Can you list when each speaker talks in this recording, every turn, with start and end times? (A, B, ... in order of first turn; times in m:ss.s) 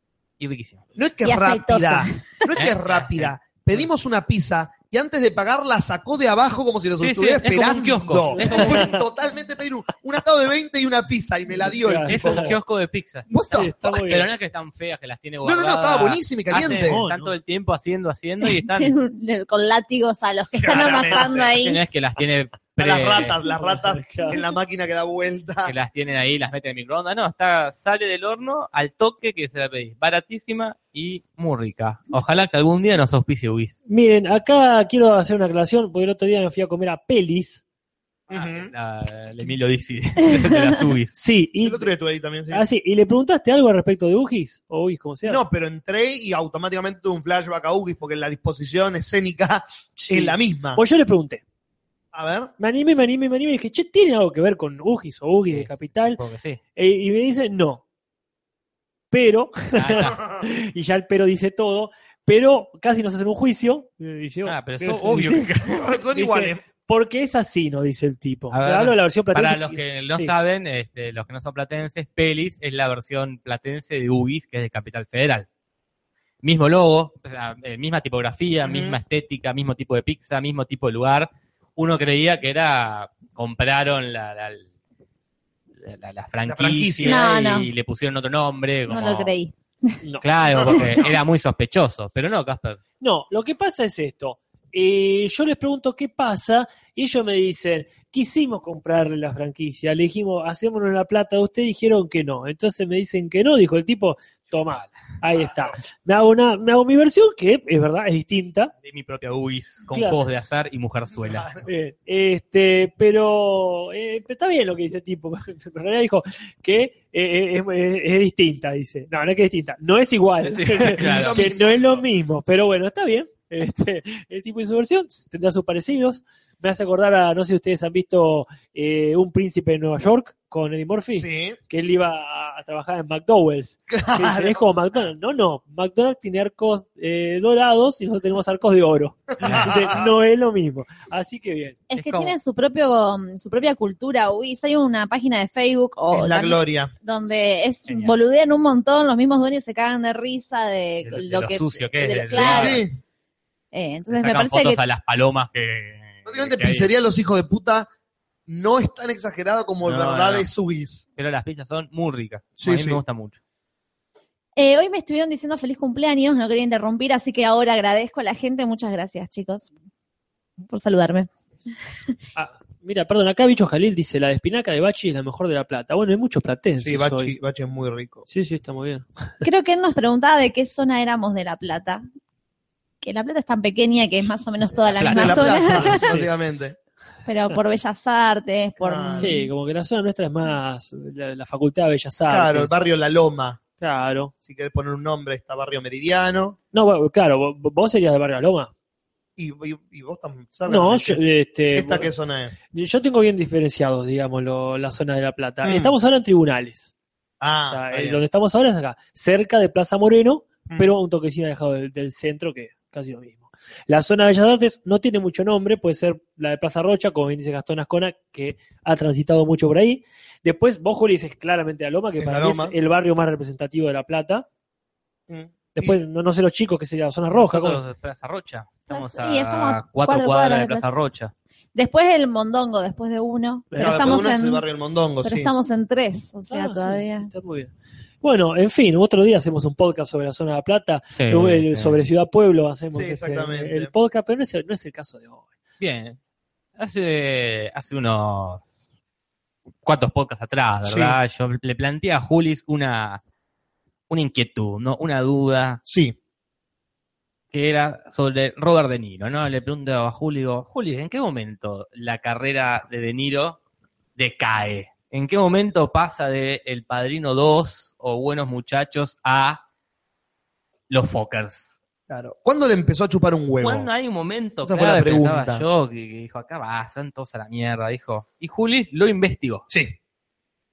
0:00.4-0:00.8 A
0:01.0-0:12.5 B
0:01.2-0:02.2 C
0:02.6-0:03.3 A
0:07.0-0:09.0 A
0:08.3-0:09.0 D
0:11.6-0:12.6 D
0:12.1-0:13.4 A
0:13.3-0:14.2 B
0:13.5-0:14.3 D
0:14.1-0:18.9 A
0:15.4-0:17.0 B
0:16.6-0:17.3 D
0:18.4-0:21.8 C
0:20.5-0:21.5 B
0:21.6-0:23.3 A
0:22.8-0:25.7 B
0:23.4-0:24.4 D
0:25.6-0:33.7 A
0:33.9-0:37.6 D
0:38.3-0:41.1 A
0:38.3-0:38.7 B
0:41.2-0:41.9 D
0:41.6-0:42.6 B
0:42.5-0:45.4 D
0:45.2-0:50.8 B
0:50.0-0:51.4 D
0:52.1-0:52.5 B
0:52.6-0:56.2 D
0:55.5-0:56.6 A
0:56.8-0:57.8 D
0:59.1-1:05.5 D
0:59.7-1:00.2 A
1:00.0-1:00.4 B
1:04.4-1:05.6 A
1:05.6-1:06.6 B
1:06.1-1:10.3 D
1:08.5-1:15.4 A
1:16.4-1:24.7 A
1:18.6-1:19.0 B
1:25.8-1:29.3 A
1:26.4-1:27.3 B
1:27.0-1:27.7 C
1:28.9-1:29.9 C
1:30.0-1:30.8 D
1:30.2-1:32.8 A
1:30.5-1:30.9 B
1:33.0-1:48.7 D
1:44.5-1:44.9 A
1:48.8-1:51.5 A
1:49.9-1:50.2 D
1:51.2-1:51.6 B
1:51.6-2:21.8 D
2:00.4-2:01.4 A
2:00.8-2:02.0 B
2:11.1-2:11.6 B
2:13.9-2:14.6 B
2:19.4-2:20.1 B
2:19.4-2:19.9 A
2:21.9-2:22.4 A
2:21.9-2:32.8 C
2:26.1-2:26.9 B
2:27.9-2:28.2 A
2:31.0-2:32.8 A
2:32.3-2:33.0 B
2:33.7-2:34.8 C
2:34.1-2:36.9 A
2:36.2-2:37.9 B
2:38.5-2:41.0 B
2:39.8-2:40.5 A
2:41.2-2:43.4 A
2:42.6-2:43.0 B
2:44.6-2:49.7 C
2:50.6-2:51.3 C
2:52.3-2:57.3 D
2:56.8-2:58.2 B
2:58.3-2:59.0 D
2:59.4-3:02.0 C
3:03.0-3:06.0 C
3:04.9-3:05.8 A
3:05.1-3:06.8 B
3:05.9-3:06.3 D
3:07.2-3:09.4 C
3:08.8-3:09.4 B
3:09.2-3:12.8 D
3:12.3-3:13.6 B
3:13.8-3:14.3 D
3:14.4-3:16.6 B
3:16.7-3:18.7 D
3:19.4-3:22.5 B
3:20.7-3:22.1 D
3:22.7-3:26.9 D
3:25.6-3:25.9 B
3:27.4-3:28.2 B
3:27.6-3:44.4 D
3:42.2-3:42.7 B
3:45.3-3:46.0 B
3:45.8-3:47.8 D
3:47.3-3:51.3 A
3:48.9-3:50.9 C
3:51.7-3:54.6 C
3:53.7-3:54.2 D
3:53.8-3:55.5 B
3:55.2-3:57.3 C
3:56.5-3:57.7 D
3:58.2-4:05.4 D
4:01.2-4:02.0 A
4:02.9-4:03.9 B
4:05.8-4:06.2 A
4:06.8-4:08.6 A
4:09.8-4:13.2 A
4:10.8-4:11.2 B
4:14.1-4:15.8 A
4:15.8-4:16.2 B
4:17.5-4:23.6 A
4:24.2-4:29.6 A
4:30.9-4:31.6 A
4:32.1-4:33.9 B
4:33.6-4:39.6 A
4:34.6-4:35.6 B
4:39.7-4:39.9 B